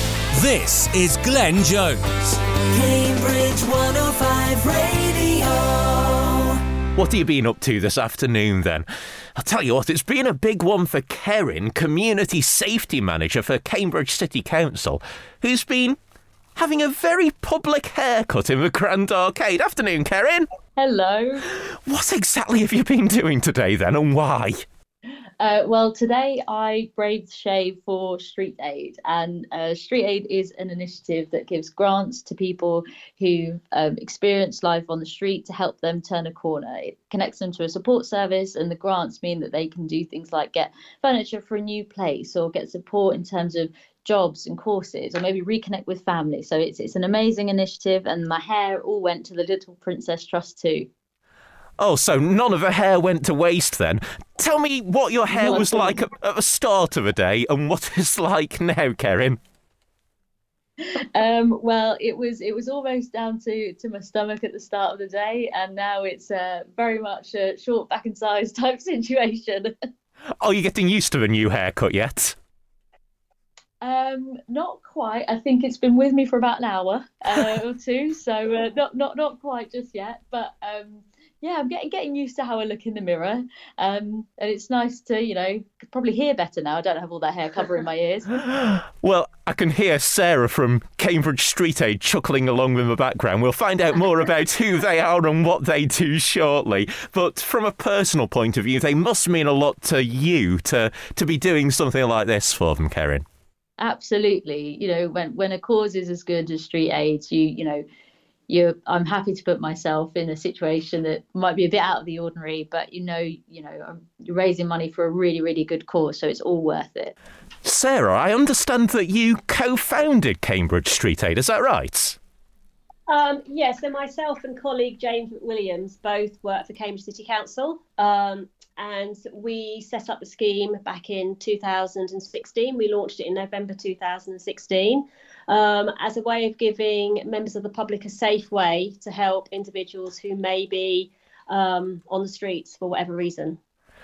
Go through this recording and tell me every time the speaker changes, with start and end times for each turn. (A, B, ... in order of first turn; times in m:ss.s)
0:00.3-0:02.4 A
0:02.7-0:06.0 B
0:06.9-0:16.0 C
0:16.6-0:20.5 C
0:20.8-0:21.4 D
0:21.5-0:24.6 C
0:25.4-0:50.9 D
0:51.8-0:59.4 C
0:55.4-0:55.9 D
1:01.0-1:09.7 D
1:10.4-1:12.3 C
1:13.8-1:28.3 D
1:28.3-1:43.2 C
1:43.8-1:47.8 D
1:48.5-1:57.1 D
1:57.6-2:02.2 C
2:03.1-2:23.6 E